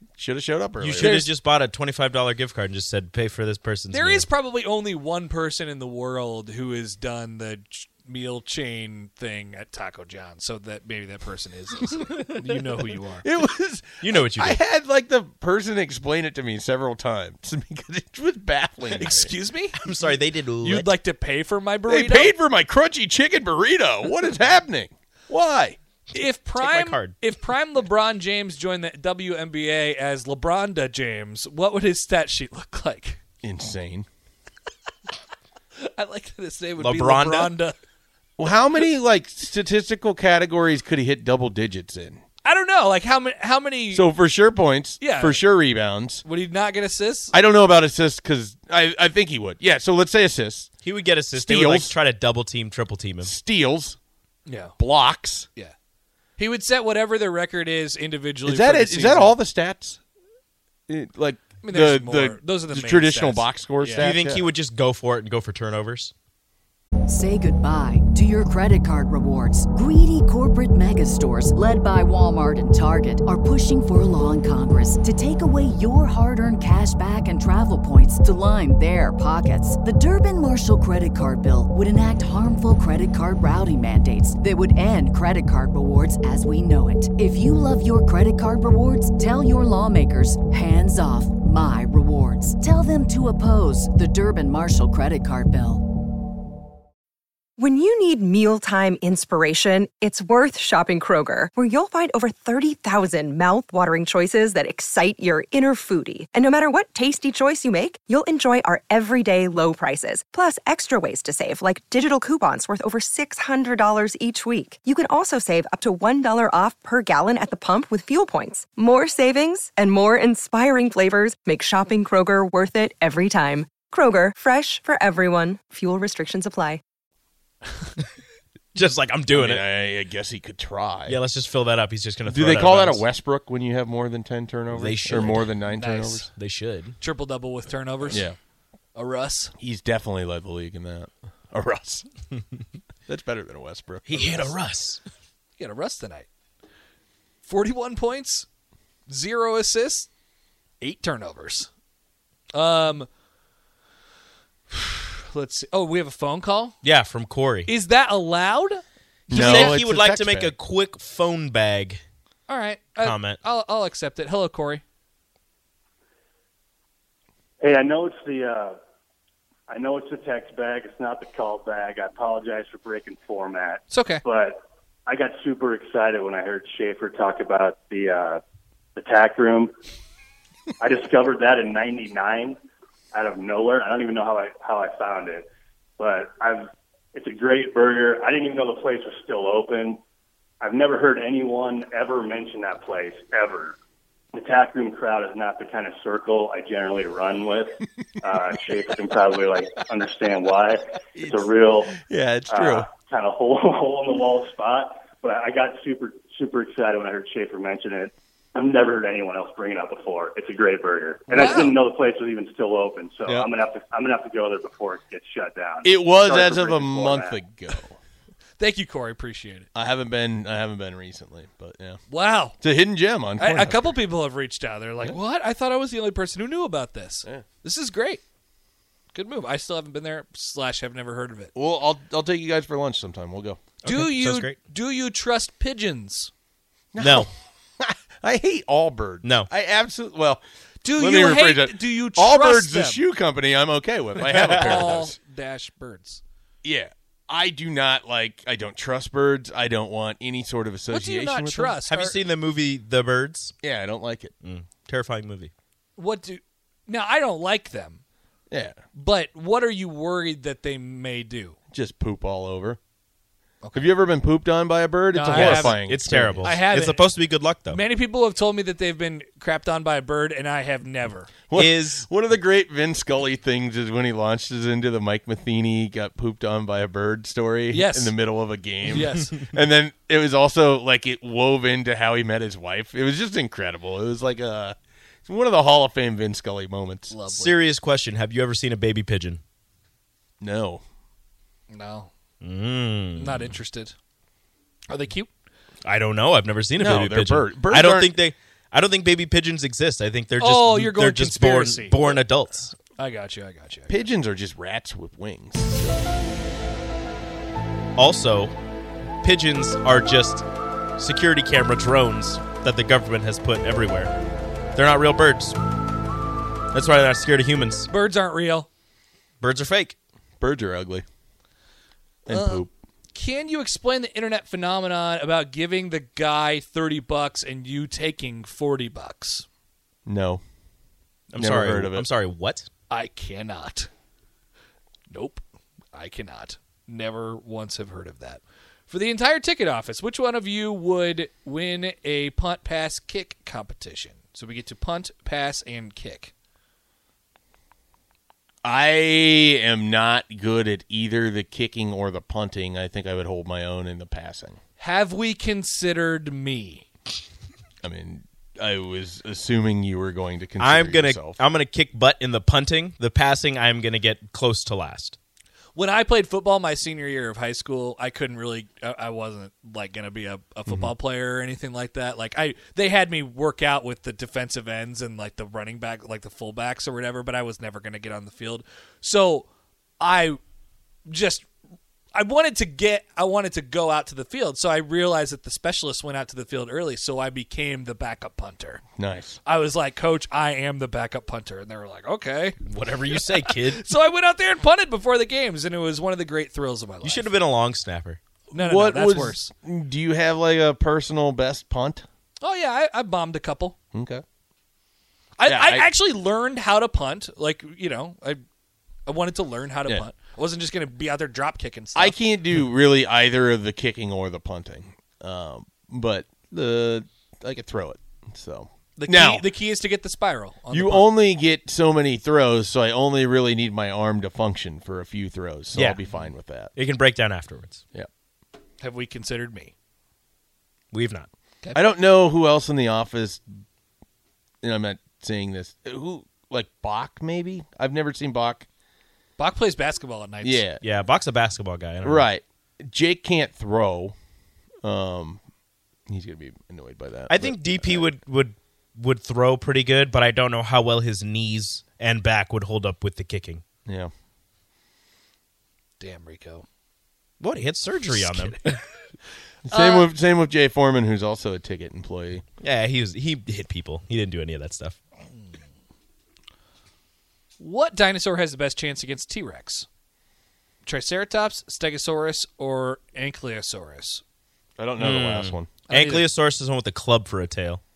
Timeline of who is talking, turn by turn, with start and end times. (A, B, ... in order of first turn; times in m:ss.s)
0:00.2-0:01.3 A
0:00.8-0:04.3 B
0:01.0-0:01.3 C
0:03.9-0:13.2 C
0:13.2-0:19.3 A
0:14.0-0:14.6 B
0:19.0-0:19.8 C
0:19.7-0:20.9 B
0:20.6-0:22.3 C
0:21.9-0:25.8 A
0:26.1-0:33.2 C
0:26.6-0:27.1 B
0:33.4-0:34.1 A
0:35.8-0:37.8 C
0:36.8-0:37.5 B
0:38.4-0:42.2 A
0:42.4-0:44.1 C
0:43.9-0:46.2 A
0:45.0-0:45.4 C
0:46.2-0:47.3 C
0:47.3-0:50.7 A
0:50.8-0:53.3 B
0:51.3-0:52.0 A
0:53.2-0:54.0 A
0:54.4-0:54.8 C
0:54.8-0:55.5 A
0:56.4-0:59.4 C
0:58.4-1:00.0 A
1:00.9-1:04.5 A
1:01.6-1:04.1 C
1:04.0-1:06.1 B
1:07.1-1:35.8 D
1:37.6-2:06.8 E
2:08.8-2:09.6 B
2:09.3-2:11.2 A
2:11.1-2:13.0 B
2:12.3-2:16.3 A
2:14.7-2:15.6 B
2:15.7-2:16.3 C
2:16.4-2:17.0 B
2:17.0-2:18.2 C
2:18.1-2:18.4 A
2:18.9-2:19.5 C
2:19.6-2:22.1 A
2:23.1-2:24.6 A
2:24.0-2:25.0 B
2:25.6-2:26.3 C
2:27.4-2:28.4 C
2:29.1-2:30.1 C
2:30.8-2:31.7 C
2:32.5-2:33.1 C
2:34.7-2:36.8 C
2:36.8-2:37.7 B
2:37.7-2:39.8 C
2:39.3-2:42.0 B
2:39.3-2:40.5 A
2:42.5-2:44.8 C
2:43.0-2:43.4 B
2:47.6-2:48.8 F
2:49.7-2:58.4 F
2:53.9-2:54.2 C
2:59.0-2:59.7 F
3:00.8-3:02.6 F
3:03.1-3:05.5 F
3:06.0-3:10.0 F
3:10.6-3:13.8 F
3:14.3-3:22.0 F
3:21.2-3:22.9 A
3:22.5-3:37.4 F
3:31.3-3:31.8 C
3:31.3-3:31.7 A
3:35.8-3:38.0 A
3:38.6-3:39.7 C
3:39.8-3:42.0 A
3:42.1-3:42.6 C
3:42.6-3:43.9 A
3:43.4-3:48.2 C
3:49.1-3:51.5 C
3:51.5-3:53.6 A
3:53.8-3:54.5 B
3:53.8-3:56.3 C
3:56.9-4:00.4 A
3:57.0-3:57.3 B
3:59.2-3:59.5 B
4:00.8-4:03.0 C
4:01.0-4:05.1 A
4:04.2-4:05.0 B
4:04.3-4:06.2 C
4:06.6-4:11.8 A
4:10.9-4:12.2 C
4:11.9-4:13.5 B
4:13.6-4:14.3 A
4:14.4-4:15.5 B
4:16.0-4:18.0 C
4:18.5-4:18.8 A
4:19.0-4:21.6 C
4:21.7-4:22.8 A
4:23.6-4:23.9 C
4:23.8-4:26.6 A
4:25.1-4:25.8 C
4:25.3-4:27.8 B
4:26.4-4:27.1 C
4:27.7-4:31.4 C
4:31.5-4:44.8 A
4:31.5-4:32.0 B
4:37.7-4:38.1 C
4:38.9-4:39.3 C
4:45.3-4:47.2 A
4:47.1-4:47.6 C
4:47.3-4:49.4 B
4:50.4-4:50.8 A
4:51.7-4:52.1 C
4:52.4-4:53.6 B
4:53.2-4:54.0 C
4:54.9-4:55.3 C
4:55.8-5:02.7 B
4:56.8-4:58.1 A
5:00.4-5:02.2 C
5:03.0-5:04.0 C
5:03.9-5:06.0 A
5:08.0-5:08.5 B
5:09.2-5:10.4 B
5:11.0-5:14.1 B
5:14.8-5:15.6 B
5:16.7-5:17.9 B
5:17.9-5:18.7 C
5:19.4-5:20.0 B
5:20.4-5:21.0 A
5:22.2-5:22.7 A
5:22.3-5:29.5 C
5:30.0-5:30.4 A
5:31.3-5:32.7 B
5:31.4-5:32.1 A
5:32.9-5:33.9 C
5:35.1-5:35.4 C
5:35.9-5:46.3 C
5:48.6-5:54.6 A
5:54.8-5:56.8 C
5:57.8-6:01.4 A
6:00.6-6:05.2 B
6:05.8-6:19.5 C
6:10.7-6:10.9 A
6:20.0-6:20.4 C
6:21.1-6:21.5 C
6:22.1-6:28.8 C
6:29.0-6:29.4 A
6:29.4-6:37.3 C
6:32.6-6:33.8 B
6:37.0-6:38.2 B
6:38.5-6:39.5 C
6:38.6-6:42.0 A
6:42.4-6:43.8 C
6:43.9-6:44.2 A
6:45.4-6:48.4 C
6:45.5-6:45.9 A
6:49.0-6:52.2 C
6:52.0-6:59.4 A
6:59.0-7:01.1 C
7:00.7-7:06.7 A
7:05.7-7:06.0 B
7:06.8-7:07.8 B
7:08.8-7:09.7 C
7:10.9-7:11.3 B
7:11.7-7:13.4 A
7:14.6-7:18.6 A
7:19.4-7:20.6 C
7:20.4-7:20.8 A
7:20.8-7:22.3 B
7:22.0-7:24.1 A
7:24.8-7:25.4 A
7:26.1-7:28.0 A
7:27.3-7:33.6 B
7:33.8-7:34.1 A
7:36.0-7:36.6 C
7:37.4-7:38.8 B
7:38.1-7:38.8 C
7:39.7-7:42.4 A
7:39.7-7:40.1 C
7:42.6-7:45.0 B
7:45.3-7:45.6 C
7:47.6-7:49.8 C
7:50.8-7:54.2 C
7:54.8-7:55.7 A
7:55.0-7:57.8 B
7:55.9-7:56.2 C